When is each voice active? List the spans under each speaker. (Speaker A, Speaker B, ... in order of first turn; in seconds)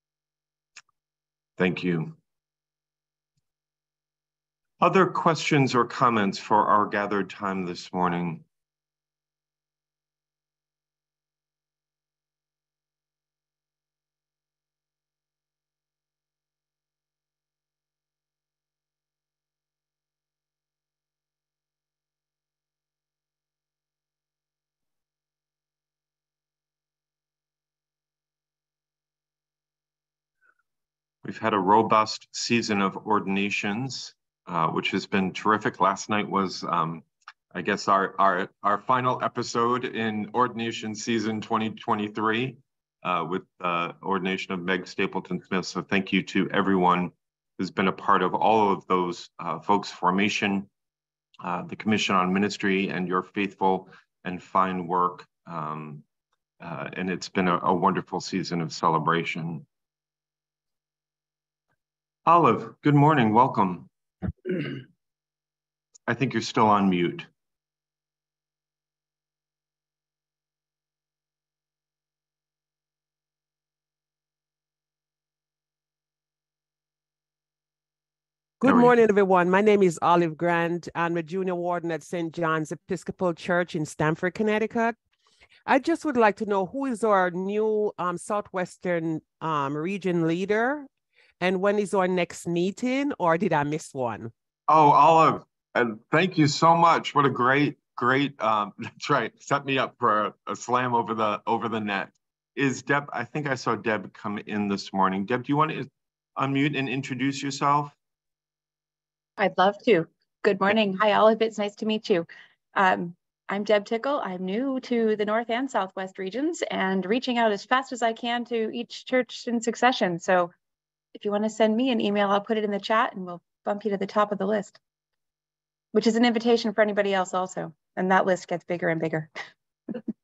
Speaker A: 1.6-2.1, 4.8-8.4, 31.2-50.7, 51.4-56.0, 56.6-59.6, 62.2-63.9, 66.1-67.3, 78.6-79.0, 94.7-107.9
Speaker B: 78.6-85.0, 85.7-90.9, 91.4-94.3
Speaker C: 109.4-120.5, 121.1-124.8, 125.9-129.3